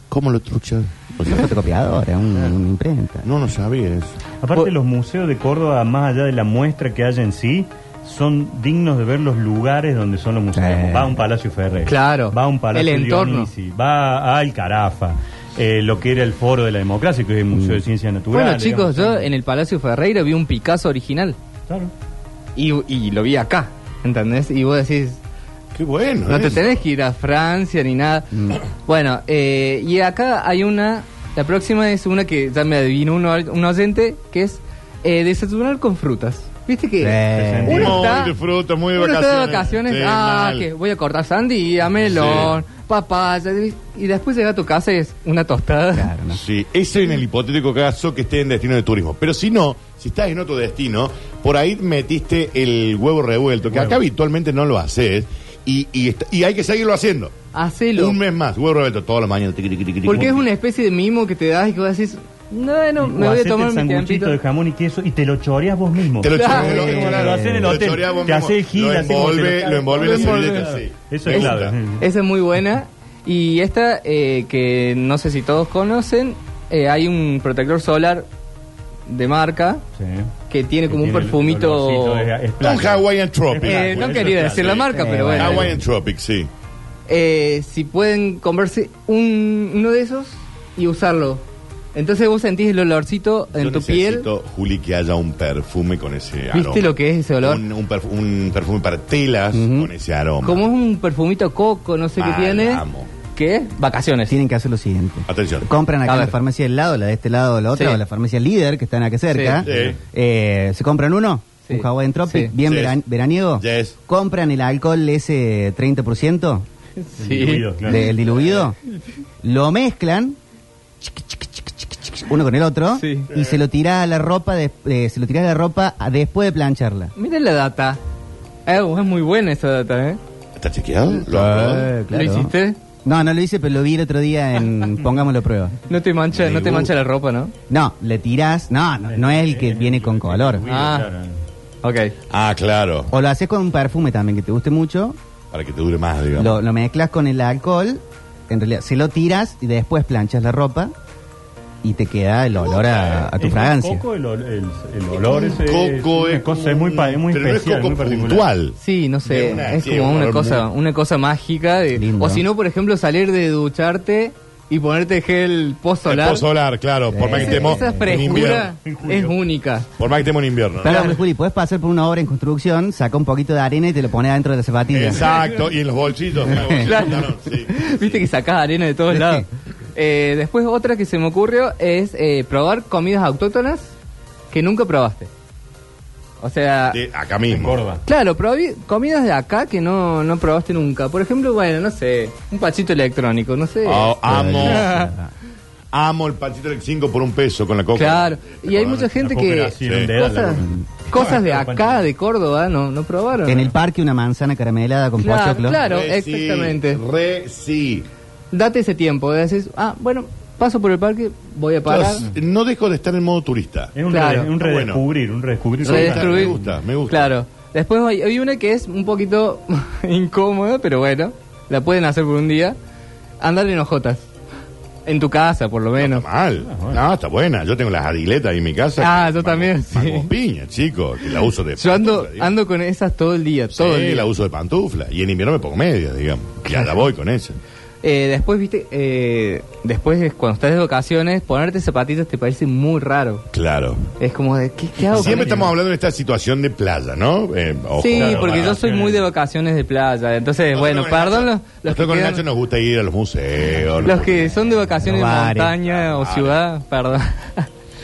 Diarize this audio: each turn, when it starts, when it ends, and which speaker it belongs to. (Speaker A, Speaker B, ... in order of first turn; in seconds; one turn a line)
Speaker A: 0.1-1.6
Speaker B: 1.2-3.3
Speaker A: 3.2-4.2
Speaker C: 4.4-19.3
Speaker B: 10.5-11.2
Speaker D: 11.9-13.5
Speaker B: 17.5-17.8
Speaker D: 18.3-21.4
Speaker D: 22.6-25.2
Speaker A: 25.7-26.7
Speaker D: 26.3-38.3
Speaker B: 28.3-28.6
Speaker B: 37.0-38.0
Speaker C: 37.3-38.3
Speaker A: 37.7-40.7
Speaker D: 39.0-46.1
Speaker A: 42.1-42.6
Speaker C: 42.2-42.5
Speaker B: 45.9-46.4
Speaker A: 46.3-57.3
Speaker C: 53.7-54.0
Speaker D: 57.5-58.2
Speaker A: 58.0-60.4
Speaker D: 60.0-64.4
Speaker C: 63.0-72.0
Speaker A: 66.2-71.8
Speaker D: 66.3-67.1
Speaker B: 66.7-67.8
Speaker D: 69.9-78.3
Speaker D: 79.1-79.8
Speaker C: 80.0-80.3
Speaker D: 80.5-82.3
Speaker C: 80.9-84.9
Speaker A: 82.6-86.5
Speaker D: 83.6-85.7
Speaker B: 84.9-85.8
Speaker D: 87.1-91.4
Speaker D: 91.9-94.3
Speaker A: 93.5-100.7
Speaker D: 96.5-97.6
Speaker B: 99.5-99.9
Speaker D: 100.4-104.4
Speaker A: 102.2-103.1
Speaker B: 104.3-116.7
Speaker A: 105.3-105.7
Speaker D: 106.1-106.3
Speaker D: 107.7-108.0
Speaker D: 109.3-109.6
Speaker A: 109.6-110.0
Speaker C: 109.7-110.0
Speaker D: 111.7-112.5
Speaker A: 112.6-113.0
Speaker A: 113.6-114.0
Speaker D: 117.0-117.7
Speaker C: 117.2-118.1
Speaker B: 117.8-118.8
Speaker B: 119.4-120.4
Speaker B: 121.0-127.1
Speaker D: 122.9-123.3
Speaker D: 127.2-128.0
Speaker D: 128.7-130.2
Speaker A: 130.6-131.9
Speaker B: 131.1-132.5
Speaker D: 132.1-132.8
Speaker B: 133.1-135.8
Speaker D: 135.8-137.5
Speaker A: 136.3-136.9
Speaker B: 137.7-140.6
Speaker C: 139.1-141.4
Speaker D: 140.7-141.1
Speaker D: 141.8-142.1
Speaker A: 142.3-143.1
Speaker B: 143.1-145.2
Speaker A: 145.5-146.6
Speaker B: 146.4-150.9
Speaker B: 151.8-154.1
Speaker A: 152.6-153.3
Speaker C: 153.4-158.5
Speaker A: 155.4-160.7
Speaker D: 158.8-166.4
Speaker B: 161.9-162.4
Speaker A: 166.1-168.7
Speaker B: 167.1-168.2
Speaker D: 167.2-169.9
Speaker C: 168.8-169.4
Speaker A: 170.0-171.2
Speaker B: 170.8-175.3
Speaker A: 174.9-178.3
Speaker B: 176.5-176.9
Speaker D: 176.7-183.9
Speaker B: 179.1-179.4
Speaker D: 184.5-185.3
Speaker D: 186.4-187.0
Speaker A: 186.9-187.8
Speaker C: 187.5-188.0
Speaker D: 188.1-195.1
Speaker A: 193.8-195.1
Speaker B: 194.2-195.3
Speaker A: 195.9-199.1
Speaker D: 197.9-203.7
Speaker C: 199.1-202.1
Speaker A: 199.8-200.1
Speaker B: 203.5-205.8
Speaker D: 205.2-207.0
Speaker A: 205.7-208.1
Speaker D: 208.5-212.2
Speaker A: 211.9-213.9
Speaker C: 213.9-216.7
Speaker D: 214.1-214.5
Speaker A: 214.6-215.0
Speaker A: 215.8-217.3
Speaker D: 215.8-216.6
Speaker D: 217.1-222.8
Speaker D: 223.4-224.3
Speaker D: 225.1-226.2
Speaker A: 226.0-232.6
Speaker C: 226.6-227.0
Speaker D: 229.0-230.3
Speaker D: 231.8-234.3
Speaker A: 233.7-237.6
Speaker D: 236.7-237.0
Speaker D: 238.0-243.5
Speaker A: 243.5-244.1
Speaker D: 244.2-245.7
Speaker A: 245.1-248.8
Speaker C: 245.1-245.7
Speaker D: 248.0-252.4
Speaker C: 248.1-249.3
Speaker A: 250.7-254.7
Speaker D: 254.0-257.7
Speaker B: 255.0-255.8
Speaker A: 255.8-256.6